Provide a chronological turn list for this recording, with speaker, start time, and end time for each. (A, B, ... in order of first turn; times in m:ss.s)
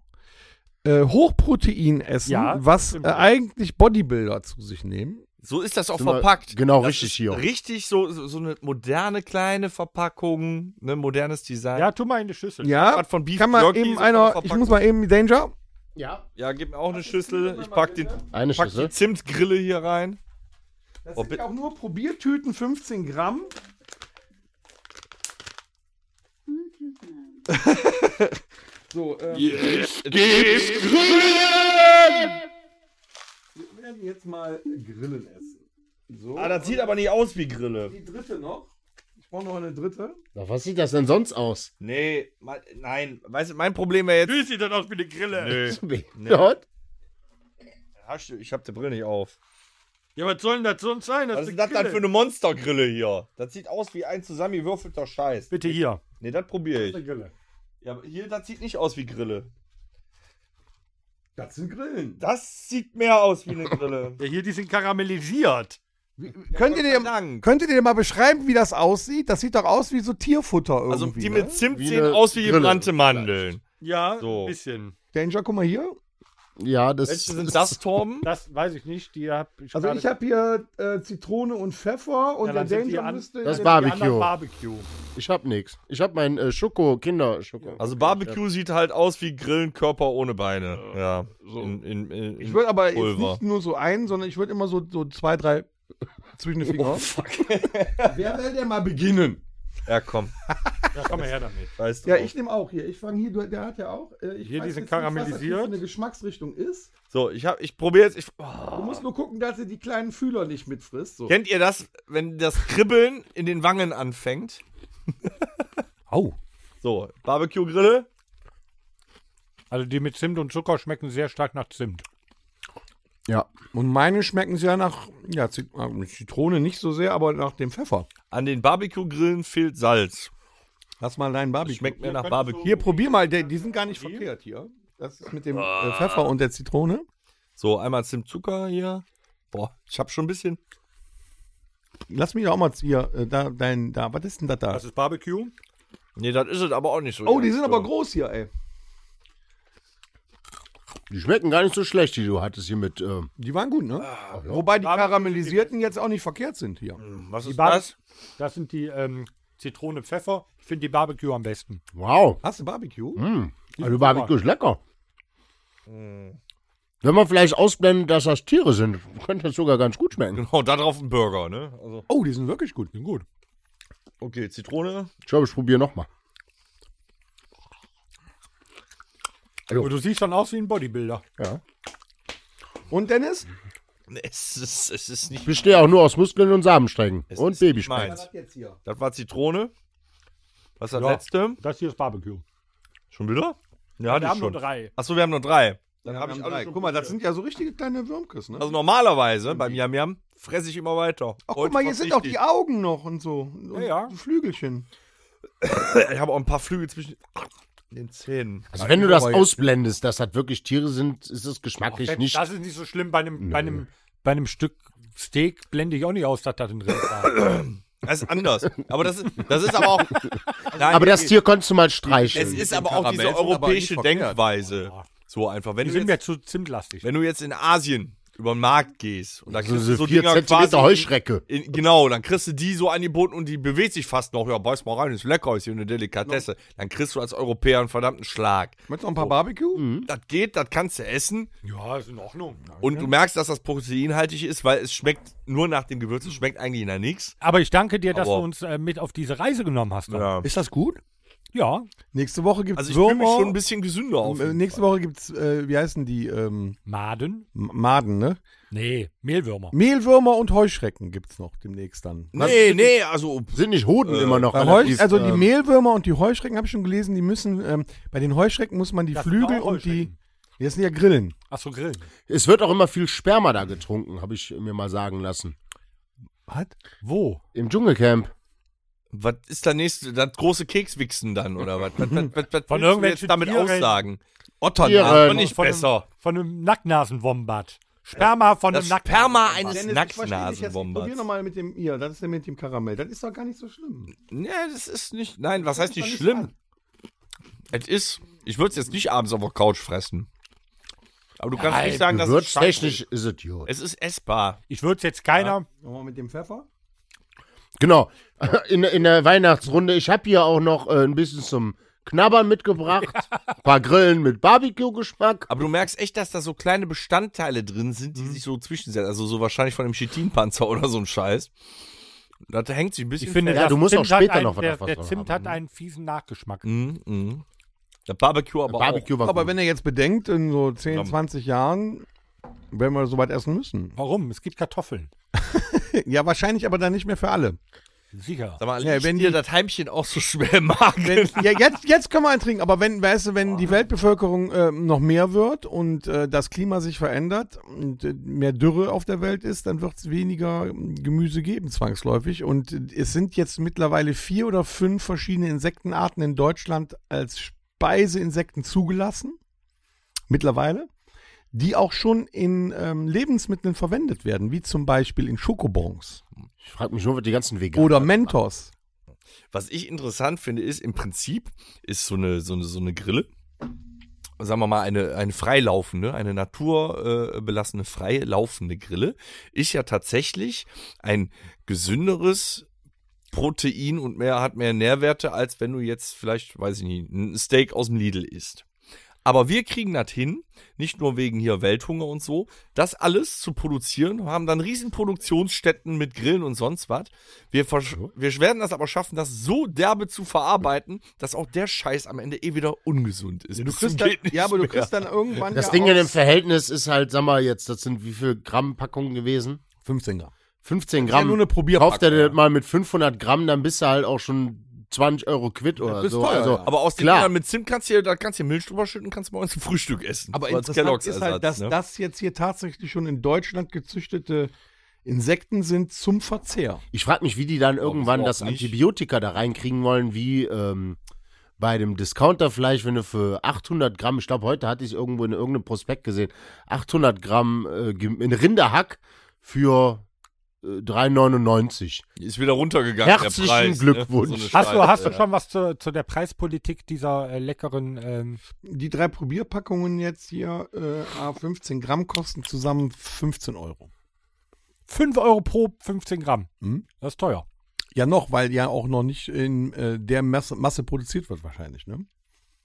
0:00.8-0:05.2 A
0:02.2-0:03.3 B
0:05.4-0:11.9 C
0:06.0-0:07.4 D
0:11.7-0:12.8 B
0:12.6-0:15.5 A
0:12.8-0:14.8 C
0:16.0-0:16.2 D
0:16.4-0:20.2 C
0:16.9-0:18.2 A
0:18.3-0:18.9 D
0:21.0-0:23.5 A
0:21.2-0:21.4 C
0:28.9-0:29.7 A
0:29.4-0:31.5 E
0:29.7-0:30.8 C
0:33.5-0:36.9 A
0:36.4-0:37.9 C
0:37.9-0:40.2 A
0:40.3-0:41.7 D
0:41.8-0:44.4 C
0:44.2-0:45.8 B
0:45.4-0:46.5 C
0:45.6-0:46.6 D
0:48.0-0:49.4 C
0:50.2-0:52.0 B
0:51.3-0:57.0 C
0:55.5-0:56.0 B
0:56.8-0:57.3 B
0:57.8-0:59.5 C
1:01.4-1:02.2 A
1:02.2-1:04.2 C
1:04.2-1:05.8 B
1:06.2-1:11.6 A
1:06.5-1:07.5 C
1:10.9-1:13.6 C
1:11.7-1:13.4 D
1:13.8-1:14.9 B
1:14.2-1:14.5 C
1:15.1-1:16.0 A
1:16.6-1:17.8 D
1:17.0-1:18.3 C
1:18.2-1:20.1 B
1:19.7-1:23.8 A
1:22.4-1:24.9 B
1:23.4-1:24.3 D
1:25.1-1:28.4 D
1:27.8-1:33.4 C
1:31.4-1:31.7 A
1:32.4-1:35.7 A
1:36.4-1:37.1 A
1:36.7-1:38.2 C
1:38.0-1:39.4 A
1:39.8-1:40.3 C
1:40.5-1:40.8 A
1:40.9-1:41.7 B
1:41.8-1:42.3 C
1:42.0-1:46.9 A
1:44.4-1:45.8 B
1:47.1-1:49.0 C
1:48.7-1:51.3 A
1:51.3-1:54.6 C
1:56.8-1:58.1 C
1:59.7-2:02.0 B
2:03.7-2:08.1 A
2:08.3-2:10.3 C
2:11.0-2:17.0 A
2:11.6-2:12.8 C
2:12.0-2:14.3 B
2:15.5-2:16.3 C
2:17.6-2:20.6 C
2:22.1-2:24.8 A
2:24.7-2:25.5 B
2:26.2-2:27.9 C
2:27.2-2:28.5 A
2:31.1-2:33.3 D
2:33.4-2:37.0 A
2:34.0-2:34.4 C
2:34.3-2:34.6 D
2:34.8-2:35.8 B
2:37.0-2:37.9 C
2:37.4-2:41.8 B
2:41.9-2:42.4 D
2:42.4-2:43.2 A
2:43.2-2:44.8 D
2:43.8-2:44.3 B
2:45.9-2:46.4 C
2:47.0-2:50.4 D
2:50.3-2:52.1 C
2:52.1-2:52.9 A
2:52.9-2:53.2 B
2:54.2-2:55.1 C
2:55.2-2:56.1 D
2:59.8-3:01.2 B
3:02.9-3:03.5 A
3:04.1-3:05.8 C
3:05.4-3:08.2 D
3:07.3-3:08.2 C
3:07.9-3:08.8 A
3:08.8-3:09.7 C
3:10.8-3:11.6 C
3:10.9-3:12.4 B
3:13.1-3:17.1 C
3:14.0-3:14.9 B
3:16.0-3:18.8 A
3:18.6-3:22.4 C
3:21.5-3:24.9 A
3:23.7-3:24.1 B
3:25.6-3:28.7 C
3:28.7-3:32.4 D
3:28.7-3:29.6 A
3:31.9-3:37.3 B
3:33.4-3:33.8 D
3:37.2-3:41.4 C
3:40.8-3:41.2 A
3:40.9-3:42.7 D
3:42.0-3:44.4 A
3:42.3-3:46.2 C
3:44.6-3:45.1 B
3:45.8-3:47.0 B
3:47.0-3:59.3 C
3:49.5-3:51.4 D
3:58.9-3:59.8 A
3:59.7-4:00.1 D
4:00.0-4:01.5 C
4:01.6-4:02.6 B
4:02.7-4:03.1 A
4:02.8-4:07.4 C
4:07.4-4:10.3 B
4:08.1-4:08.4 C
4:10.1-4:10.5 C
4:10.4-4:11.0 A
4:11.5-4:11.9 B
4:12.1-4:13.6 A
4:12.8-4:14.8 C
4:14.2-4:16.8 A
4:16.8-4:17.4 B
4:17.5-4:18.4 A
4:18.7-4:19.8 B
4:19.7-4:22.8 A
4:22.3-4:25.1 C
4:23.5-4:25.5 D
4:24.5-4:31.3 A
4:29.1-4:30.1 B
4:31.5-4:32.1 B
4:32.3-4:35.6 D
4:36.5-4:36.7 A
4:37.0-4:37.4 B
4:37.5-4:38.3 D
4:39.1-4:44.2 C
4:42.7-4:43.9 B
4:44.6-4:45.5 A
4:44.8-4:45.4 D
4:44.9-4:46.0 C
4:45.2-4:49.9 B
4:48.7-4:51.2 C
4:49.7-4:54.1 A
4:54.3-4:56.5 C
4:55.6-4:56.5 A
4:57.7-5:00.3 C
5:01.4-5:03.0 C
5:01.6-5:02.0 B
5:01.7-5:03.7 D
5:03.6-5:04.6 C
5:04.7-5:05.6 B
5:05.8-5:06.6 A
5:07.8-5:15.5 D
5:15.5-5:21.5 C
5:22.5-5:23.8 C
5:23.2-5:26.6 B
5:23.5-5:25.6 D
5:26.6-5:27.4 C
5:28.1-5:29.1 C
5:28.7-5:29.5 D
5:29.2-5:32.0 A
5:32.7-5:33.9 A
5:34.0-5:35.1 B
5:35.3-5:37.6 A
5:38.1-5:38.6 B
5:38.6-5:41.4 C
5:38.8-5:39.4 A
5:41.0-5:59.4 A
6:00.3-6:00.9 A
6:01.5-6:06.2 A
6:06.6-6:08.3 D
6:07.7-6:08.7 A
6:09.5-6:13.3 C
6:14.4-6:22.6 C
6:23.3-6:28.6 C
6:29.2-6:44.9 C
6:43.5-6:46.2 A
6:45.5-6:49.6 D
6:49.8-6:50.3 A
6:50.6-6:57.3 D
6:51.0-6:52.3 A
6:55.8-6:56.7 A
6:56.6-7:01.8 C
7:00.3-7:04.5 A
7:05.0-7:06.8 A
7:06.9-7:11.0 D
7:07.8-7:08.7 C
7:11.6-7:20.0 D
7:20.6-7:22.0 D
7:22.2-7:25.2 C
7:23.0-7:25.2 D
7:24.5-7:28.4 B
7:28.6-7:33.9 A
7:34.9-7:37.4 B
7:37.9-7:42.0 A